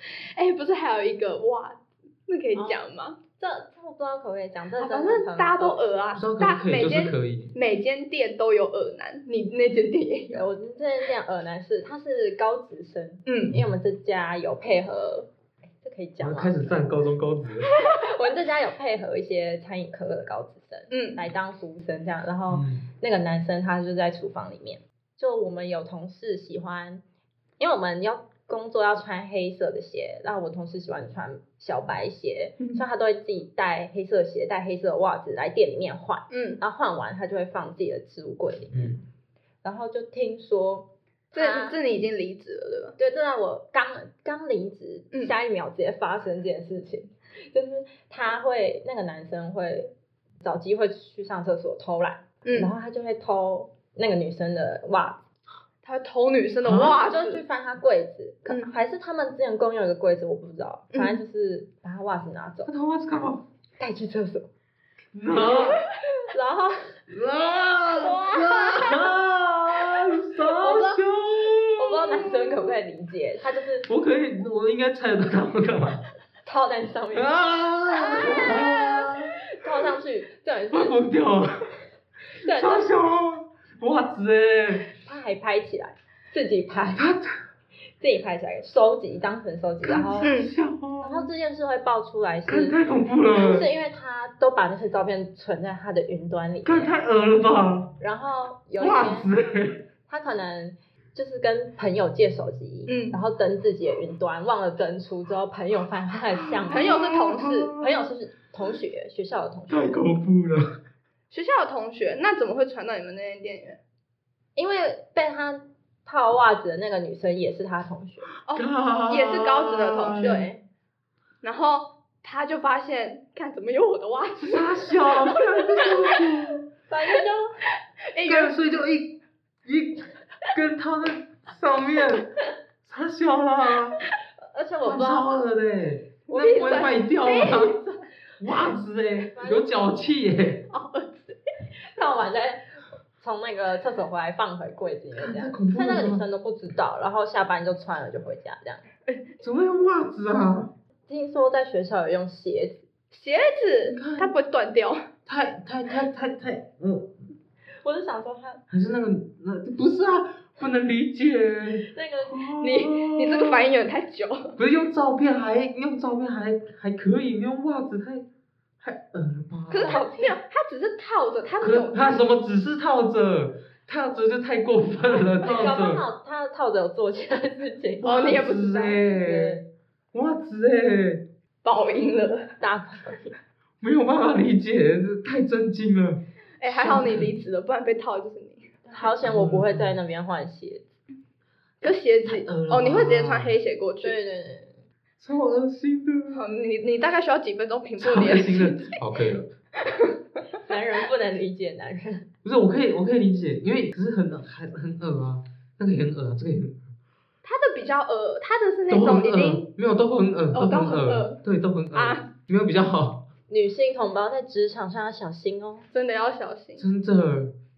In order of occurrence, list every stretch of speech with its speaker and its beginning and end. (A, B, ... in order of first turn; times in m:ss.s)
0:00.4-0:03.2 A
0:02.5-0:02.8 B
0:03.4-0:06.0 B
0:04.8-0:10.4 A
0:06.1-0:07.5 C
0:10.3-0:15.3 B
0:13.2-0:13.5 A
0:15.8-0:16.8 B
0:16.2-0:17.7 C
0:17.8-0:27.0 B
0:20.9-0:21.2 A
0:22.5-0:22.9 C
0:27.6-0:38.9 B
0:36.3-0:36.6 A
0:38.7-0:39.0 C
0:39.6-0:41.8 B
0:41.3-0:43.0 A
0:43.0-0:55.2 B
0:52.4-0:52.7 A
0:55.8-0:57.4 A
0:56.6-0:57.0 C
0:57.0-1:02.7 B
0:58.4-0:58.7 A
1:00.9-1:01.2 A
1:02.6-1:03.4 C
1:03.8-1:04.5 B
1:05.1-1:05.8 C
1:05.5-1:05.8 A
1:06.3-1:07.0 B
1:07.1-1:12.7 C
1:08.0-1:09.2 B
1:09.8-1:11.0 B
1:11.8-1:13.9 B
1:13.8-1:16.0 C
1:16.4-1:17.4 B
1:17.1-1:19.4 C
1:17.9-1:21.0 B
1:20.7-1:21.7 C
1:22.4-1:24.9 C
1:22.4-1:22.9 B
1:25.0-1:27.1 B
1:27.0-1:27.3 C
1:28.0-1:30.3 B
1:29.8-1:31.3 C
1:30.2-1:30.5 A
1:31.0-1:32.8 B
1:32.5-1:33.7 C
1:33.3-1:37.0 B
1:36.6-1:38.0 C
1:38.0-1:39.3 B
1:38.8-1:39.9 C
1:40.1-1:47.0 B
1:42.9-1:43.2 A
1:46.4-1:47.9 C
1:46.7-1:47.7 A
1:47.7-1:50.1 B
1:49.7-1:50.8 C
1:51.3-1:53.8 A
1:54.6-1:58.3 B
1:58.4-2:00.5 A
1:58.5-2:00.4 C
2:00.2-2:00.6 B
2:01.4-2:05.9 A
2:04.4-2:06.6 C
2:06.9-2:07.5 B
2:08.1-2:08.5 A
2:08.2-2:14.0 C
2:14.4-2:15.3 B
2:14.8-2:17.8 C
2:16.3-2:18.1 A
2:16.3-2:17.0 B
2:18.4-2:20.7 C
2:19.3-2:19.8 B
2:20.7-2:21.4 A
2:21.8-2:28.9 B
2:25.2-2:26.2 C
2:29.4-2:30.7 C
2:31.1-2:32.8 B
2:33.1-2:35.0 A
2:33.9-2:34.3 C
2:35.2-2:37.2 C
2:37.8-2:38.6 B
2:38.7-2:43.6 C
2:41.8-2:42.4 B
2:42.6-2:44.6 A
2:44.6-2:48.3 C
2:48.8-2:50.0 C
2:49.7-2:52.2 A
2:49.8-2:50.4 B
2:51.6-2:56.0 C
2:55.4-2:58.4 B
2:55.4-2:55.7 A
2:58.0-2:59.6 C
2:58.0-2:59.0 A
2:59.0-2:59.6 B
3:00.1-3:01.2 C
3:01.6-3:02.5 A
3:02.6-3:03.3 B
3:03.8-3:07.3 C
3:06.6-3:08.7 A
3:08.8-3:10.8 B
3:09.2-3:10.0 C
3:11.8-3:14.2 A
3:12.2-3:13.5 C
3:14.0-3:14.8 B
3:15.2-3:16.4 C
3:16.3-3:19.0 A
3:18.0-3:19.5 C
3:19.8-3:20.1 A
3:20.6-3:22.3 B
3:22.4-3:26.8 C
3:27.4-3:29.7 A
3:28.9-3:33.2 C
3:30.5-3:31.4 A
3:31.9-3:32.3 A
3:33.5-3:35.9 B
3:35.9-3:36.8 A
3:36.8-3:37.5 C